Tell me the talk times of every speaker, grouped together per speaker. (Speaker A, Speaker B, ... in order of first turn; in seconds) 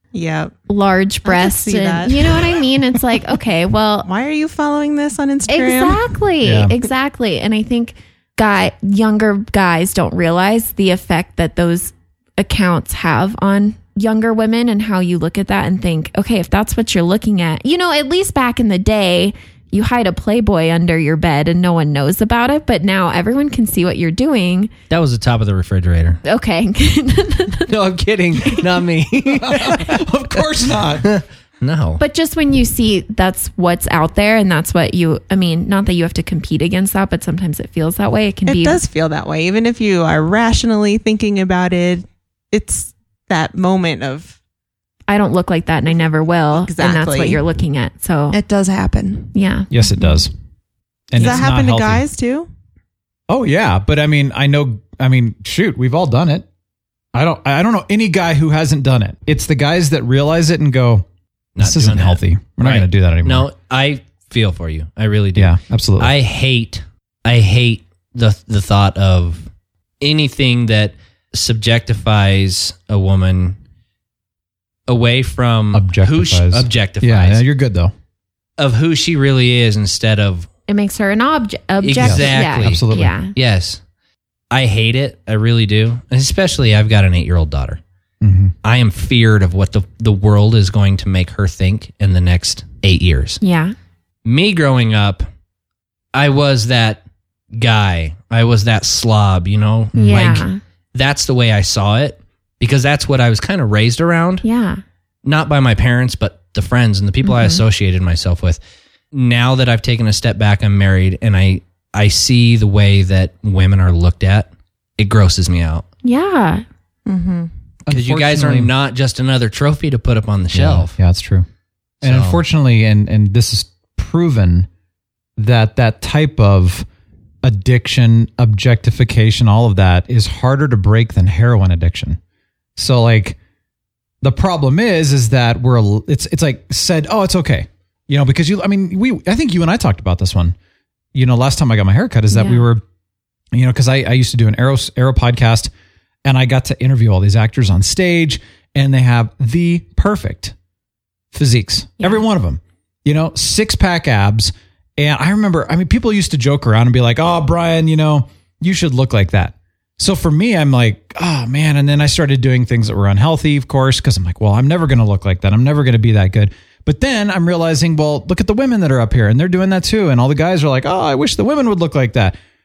Speaker A: 0.1-0.5, 1.2-2.5, 4.0-6.0, 38.5-44.3, 46.5-47.4, 48.3-49.3, 51.1-52.5, 117.0-117.5
Speaker B: 0.7-4.1, 5.5-24.7, 26.2-27.7, 32.0-38.8, 45.1-48.4, 49.3-50.2, 80.7-83.3, 93.4-93.7, 100.0-100.6, 104.4-104.8, 107.2-107.6, 116.0-116.6, 142.3-142.7, 152.0-152.2
Speaker C: 6.4-6.8, 29.4-31.1, 49.7-50.3, 51.1-52.0, 53.3-56.5, 57.1-61.0, 61.6-63.5, 65.3-66.1, 75.7-77.9, 82.0-83.1, 88.2-88.5, 99.9-100.4, 117.9-118.7, 120.5-121.5, 122.0-124.7, 125.4-126.8, 127.4-132.2, 132.8-133.4, 134.2-140.5, 141.1-142.8, 143.5-145.7, 146.2-150.5, 151.3-172.4
Speaker D: 24.9-26.2, 27.7-30.4, 31.0-32.0, 61.5-69.5, 70.0-73.6, 74.9-77.4, 78.6-80.5, 81.8-83.8, 84.5-87.8, 88.6-93.4, 94.2-95.2, 96.1-97.0, 97.5-104.4, 105.2-108.6, 109.1-115.8, 117.9-120.9, 122.0-122.4